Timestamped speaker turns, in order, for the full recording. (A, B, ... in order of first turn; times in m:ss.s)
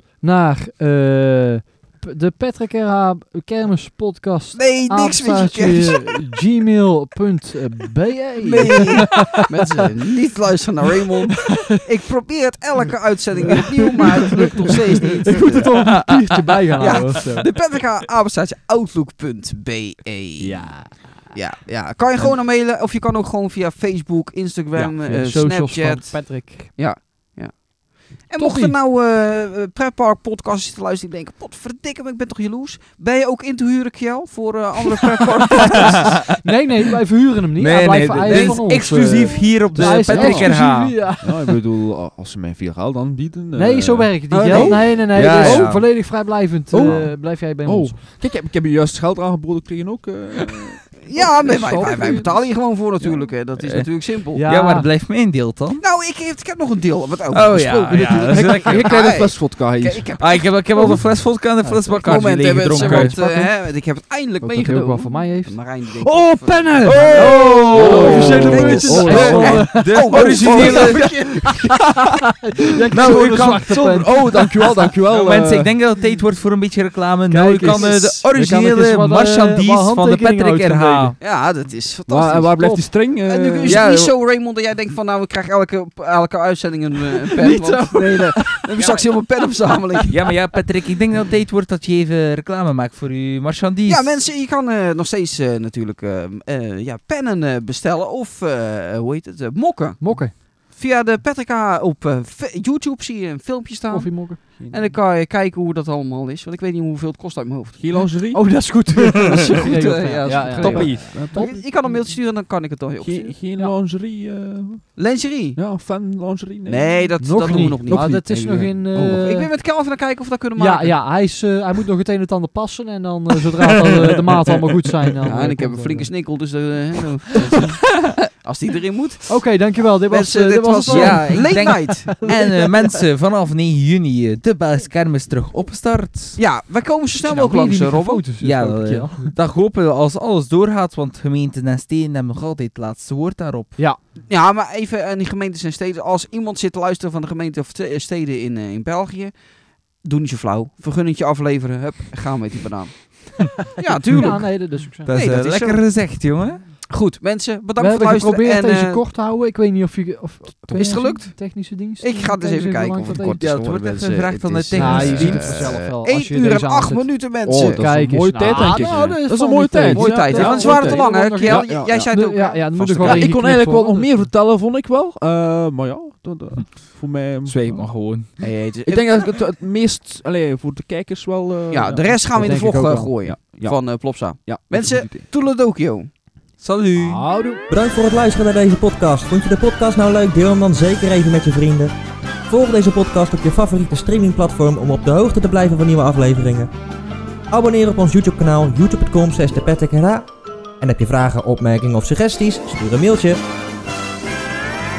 0:00.2-0:09.4 A
0:04.6-0:06.2 B
0:08.4-0:15.9 B
0:15.2-0:17.5 A
0:16.0-0:17.2 C
0:16.8-0:36.2 B
0:20.4-0:21.1 A
0:24.7-0:26.7 A
0:28.4-0:28.8 A
0:36.4-0:41.6 A
0:37.6-0:41.0 C
0:38.3-0:39.4 B
0:39.7-0:50.9 D
0:43.6-0:48.0 A
0:44.3-0:45.0 B
0:44.5-0:45.9 C
0:51.0-0:54.4 B
0:51.4-0:52.2 C
0:51.4-0:52.5 D
0:53.6-0:55.8 C
0:54.3-0:54.9 A
0:55.8-1:01.0 B
0:57.3-0:58.9 C
0:58.0-1:00.1 D
1:00.2-1:03.1 C
1:01.6-1:02.0 A
1:01.9-1:11.8 B
1:02.7-1:03.5 A
1:04.4-1:09.9 A
1:06.8-1:11.0 C
1:06.9-1:11.7 D
1:12.6-1:14.4 A
1:12.9-1:15.8 D
1:12.9-1:13.8 C
1:15.1-1:21.2 C
1:17.3-1:21.1 A
1:21.2-1:30.1 B
1:22.1-1:23.9 D
1:23.6-1:24.1 C
1:27.4-1:28.7 A
1:30.1-1:34.2 C
1:33.9-1:48.0 B
1:40.0-1:40.3 A
1:43.9-1:44.4 A
1:44.6-1:44.9 D
1:47.8-1:48.8 D
1:48.3-1:51.6 A
1:49.5-1:53.3 B
1:50.3-1:52.0 D
1:53.0-1:59.3 D
1:55.0-1:55.6 B
1:56.6-1:58.3 B
1:57.2-1:59.5 A
1:58.9-2:01.0 B
2:00.6-2:06.1 A
2:05.2-2:09.3 B
2:09.3-2:12.4 A
2:10.1-2:12.7 B
2:10.9-2:16.4 C
2:16.4-2:18.2 B
2:17.2-2:19.3 A
2:18.4-2:23.8 C
2:24.3-2:29.3 B
2:30.0-2:35.8 B
2:34.0-2:35.1 A
2:34.1-2:34.5 C
2:35.0-2:36.6 C
2:36.9-2:39.0 B
2:37.8-2:43.4 A
2:40.7-2:47.8 B
2:43.4-2:45.6 C
2:44.8-2:54.2 A
2:45.0-2:45.6 D
2:47.4-2:52.1 D
2:48.5-2:49.0 B
2:49.9-2:53.3 B
2:50.3-2:51.0 C
2:52.6-2:58.0 D
2:57.4-2:58.3 C
2:58.4-2:59.2 B
2:58.9-3:05.3 D
3:01.7-3:06.1 B
3:02.3-3:03.1 A
3:06.6-3:07.2 C
3:07.0-3:07.5 D
3:07.2-3:07.6 A
3:07.7-3:11.9 E
3:12.5-3:16.7 E
3:17.5-3:20.3 E
3:20.8-3:23.4 E